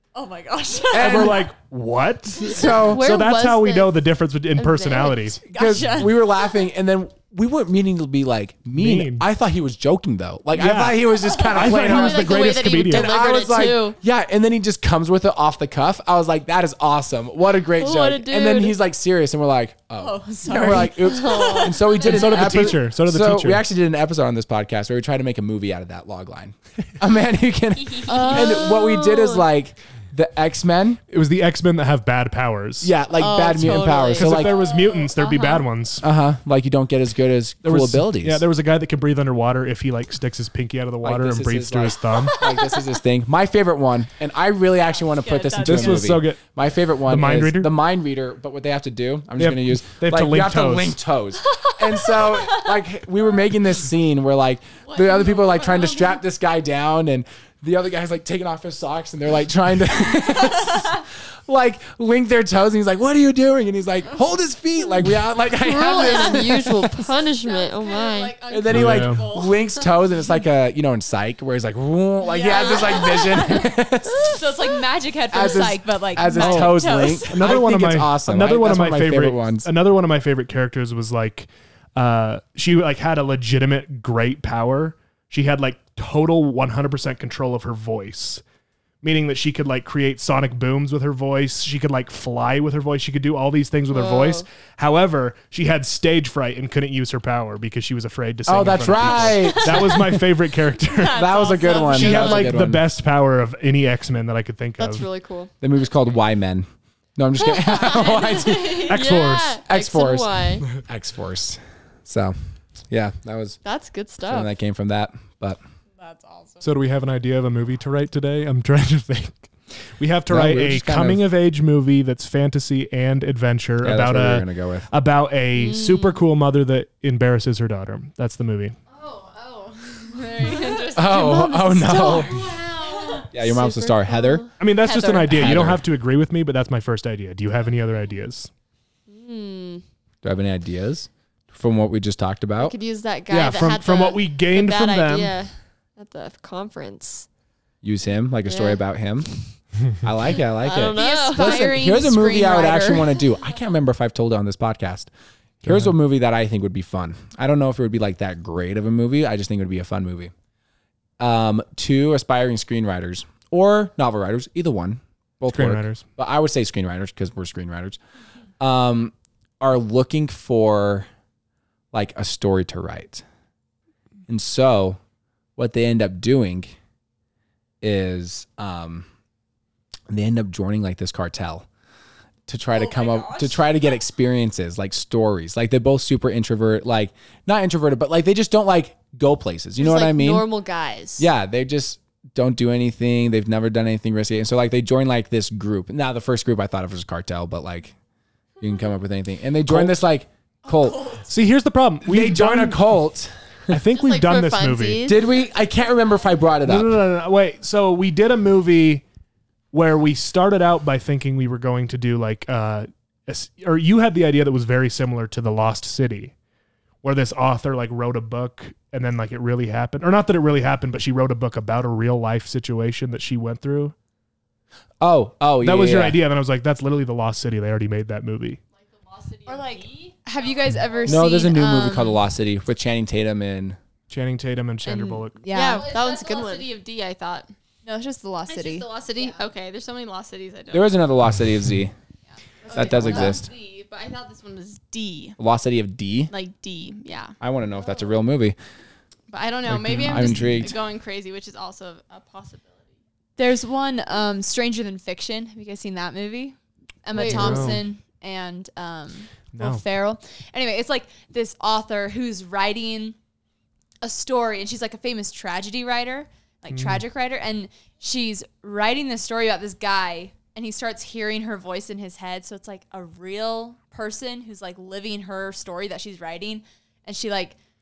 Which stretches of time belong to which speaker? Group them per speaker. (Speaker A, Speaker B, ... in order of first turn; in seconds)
Speaker A: 0.1-1.3, 5.5-6.5, 20.0-21.8, 28.1-28.4, 33.5-33.9, 42.4-42.9, 45.1-46.2, 72.4-77.5, 99.1-99.8, 100.9-102.4, 116.0-116.6, 134.8-135.3, 150.8-153.2, 182.8-183.6, 200.7-201.3, 229.5-232.2, 234.9-235.9, 237.8-239.4, 242.7-243.4, 253.4-263.2, 264.0-277.6
Speaker B: 0.9-1.5, 2.4-3.0, 5.5-31.0, 32.8-34.6, 36.0-38.4, 41.0-66.8, 68.5-74.4, 75.3-79.7, 98.5-100.0, 101.1-102.9, 105.6-109.0, 109.7-112.4, 112.9-113.6, 114.2-115.6, 120.3-121.2, 123.8-124.9, 130.9-132.4, 133.3-134.5, 135.3-135.9, 140.2-142.7, 147.8-149.3, 149.9-155.1, 155.6-160.3, 161.2-168.0, 168.6-171.1, 171.9-173.2, 174.3-175.0, 175.6-176.8, 177.8-179.1, 180.1-181.7, 182.5-190.5, 191.2-197.9, 198.6-201.1, 202.0-203.8, 205.1-206.9, 225.0-226.2, 231.1-233.8, 240.7-241.9, 242.7-243.5, 245.4-246.3, 247.4-248.6, 250.0-250.8
Speaker C: 0.9-5.4, 8.8-9.2, 10.5-13.1, 21.9-23.6, 31.1-32.9, 34.2-36.0, 37.6-42.4, 45.6-46.4, 47.1-47.7, 49.4-51.0, 68.7-69.2, 76.3-88.4, 89.0-101.2, 101.8-105.1, 108.9-109.6, 116.6-128.8, 134.6-138.5, 143.3-145.3, 155.6-155.9, 165.5-166.1, 199.7-199.9, 201.3-202.9, 203.7-205.1, 206.6-209.0, 209.7-216.3, 217.0-223.9, 225.6-228.6, 234.1-235.4, 249.7-250.6, 257.2-257.8, 259.5-259.8, 266.7-267.0
Speaker D: 2.6-4.0, 4.5-5.4, 11.6-14.0, 17.8-18.8, 20.8-21.7, 28.1-29.4, 33.2-35.7, 65.6-68.3, 93.9-94.5, 104.8-105.5, 107.5-110.7, 113.6-114.5, 125.5-126.2, 130.8-134.5, 139.1-139.8, 142.6-147.3, 148.4-148.8, 150.3-152.0, 189.8-191.3, 203.9-205.3, 235.5-236.7, 257.1-257.8
Speaker E: 54.8-56.2, 66.0-66.4, 67.1-69.8, 72.3-73.4, 101.4-102.1, 107.9-108.8, 128.9-133.3, 134.8-135.2, 228.8-231.3, 235.7-237.5, 238.5-241.1, 242.7-245.4, 246.3-247.4, 249.3-253.0